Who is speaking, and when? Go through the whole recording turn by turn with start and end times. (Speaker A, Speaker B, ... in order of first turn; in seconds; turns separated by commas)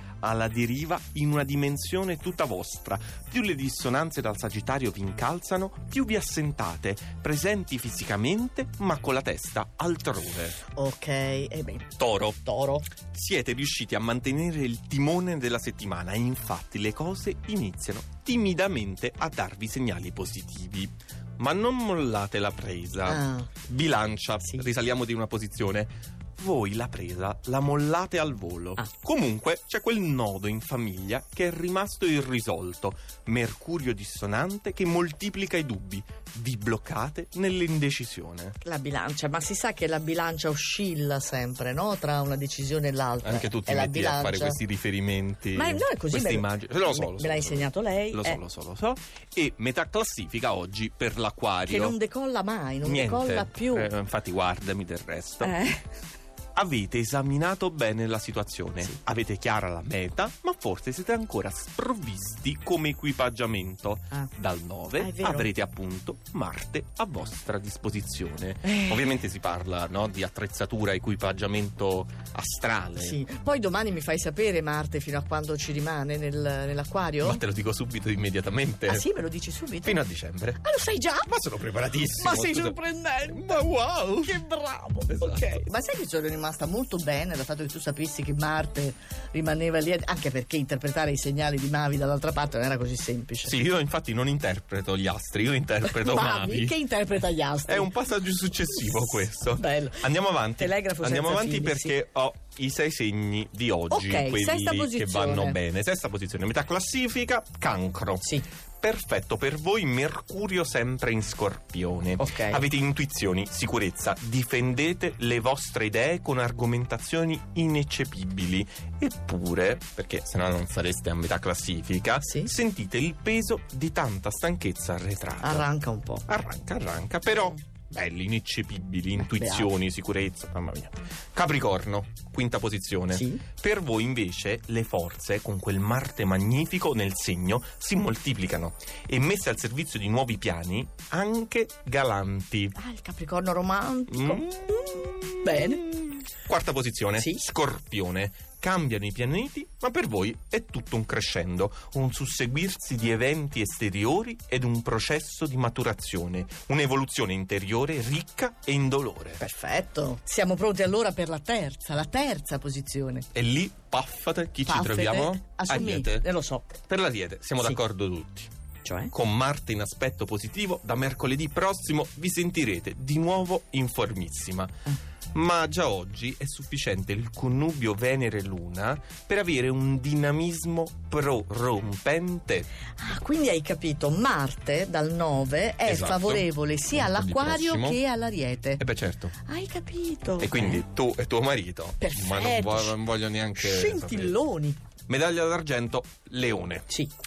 Speaker A: 0.2-10.6, Speaker B: 10.7-12.9, Speaker A: 12.0-12.4, Speaker A: 13.0-38.6, Speaker B: 23.1-23.5, Speaker B: 38.6-44.6, Speaker A: 43.2-52.0, Speaker B: 45.5-48.4, Speaker B: 51.6-53.9, Speaker A: 52.8-55.5, Speaker B: 55.4-55.9, Speaker A: 56.5-73.2, Speaker B: 65.0-65.5, Speaker B: 68.6-69.1, Speaker B: 73.0-77.4, Speaker A: 77.2-79.0, Speaker B: 78.9-80.0, Speaker A: 79.8-80.6, Speaker B: 80.6-81.3, Speaker A: 81.2-84.4, Speaker B: 82.0-83.7, Speaker B: 84.2-93.5, Speaker A: 85.1-85.6, Speaker A: 93.4-96.8, Speaker B: 95.8-97.9, Speaker A: 97.7-108.3, Speaker B: 98.7-102.0, Speaker B: 103.9-105.6, Speaker B: 108.2-108.5, Speaker A: 108.8-125.7, Speaker B: 112.2-112.6, Speaker B: 122.2-122.5, Speaker B: 125.4-126.3, Speaker A: 126.3-142.8, Speaker B: 129.2-129.7, Speaker B: 133.1-133.4, Speaker B: 142.8-145.8, Speaker A: 144.1-159.4, Speaker B: 147.2-147.4, Speaker B: 159.4-163.3, Speaker A: 163.3-168.5, Speaker B: 164.7-166.7, Speaker B: 168.8-169.1, Speaker A: 169.1-174.7, Speaker A: 175.3-182.7, Speaker B: 183.0-188.8, Speaker A: 185.8-188.0, Speaker A: 188.8-189.3, Speaker B: 189.4-190.8, Speaker A: 190.4-194.4, Speaker B: 192.0-193.0, Speaker B: 193.6-194.8, Speaker A: 195.1-196.9